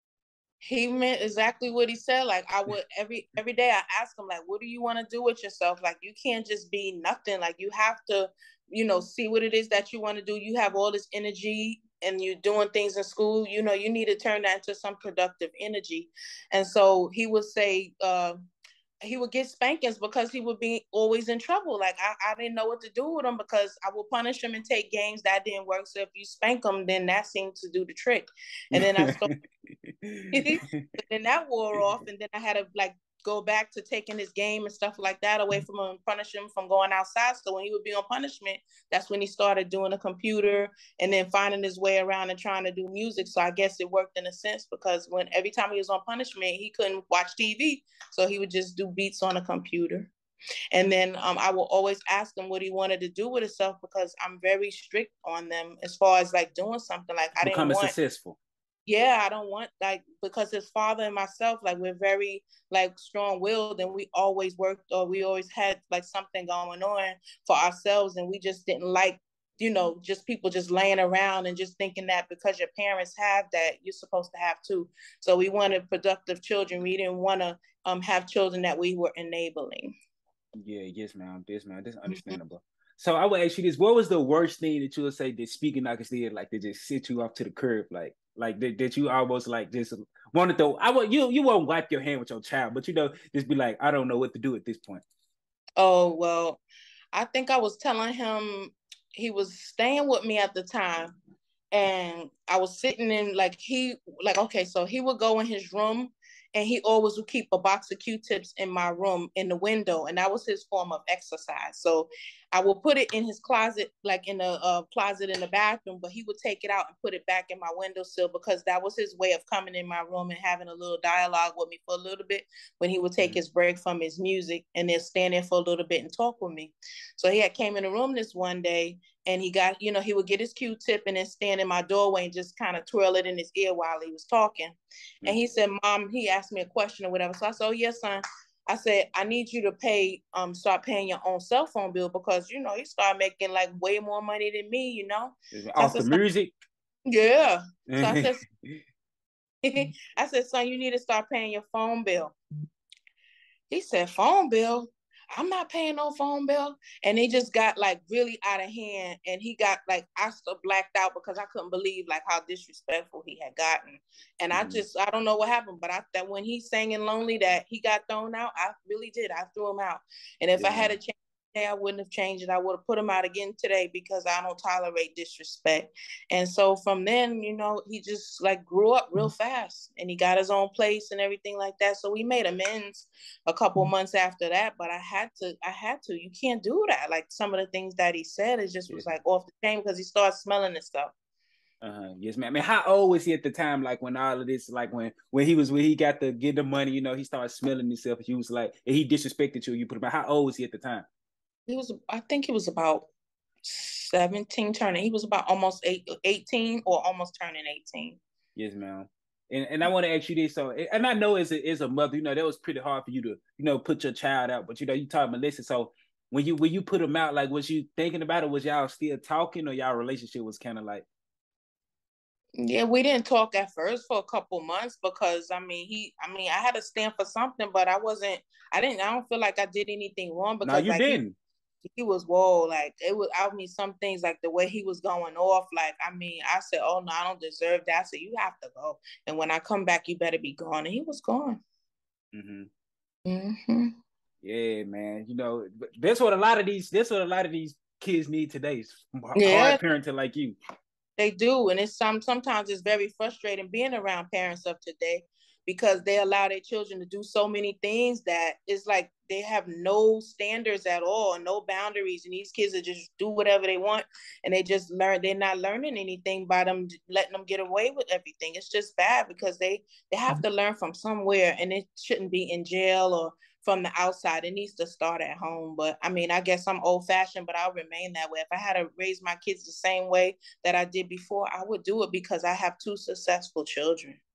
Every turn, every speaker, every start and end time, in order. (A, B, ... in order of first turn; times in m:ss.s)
0:00.6-0:18.3 A
0:19.0-0:29.3 A
0:28.8-0:29.3 B
0:29.8-0:30.9 B
0:30.3-0:50.1 A
0:50.7-0:57.9 A
0:57.4-0:58.4 B
0:58.8-1:19.9 A
1:20.6-1:35.0 B
1:22.1-1:22.4 A
1:35.8-1:36.6 A
1:37.1-1:41.1 A
1:41.7-2:26.2 A
2:25.5-2:26.5 B
2:27.1-2:28.4 A
2:27.9-2:28.3 B
2:29.6-2:32.3 A
2:33.7-3:11.1 A
2:44.5-2:44.8 B
2:50.6-2:50.9 B
3:11.8-3:21.0 B
3:21.7-3:23.1 A
3:23.6-3:28.2 A
3:28.6-3:41.0 B
3:42.6-3:51.2 A
3:50.6-3:51.4 B
3:51.9-4:01.6 A
4:02.3-4:02.7 B
4:03.2-4:03.9 A
4:04.4-4:10.6 B
4:09.3-4:09.8 A
4:11.2-4:44.2 A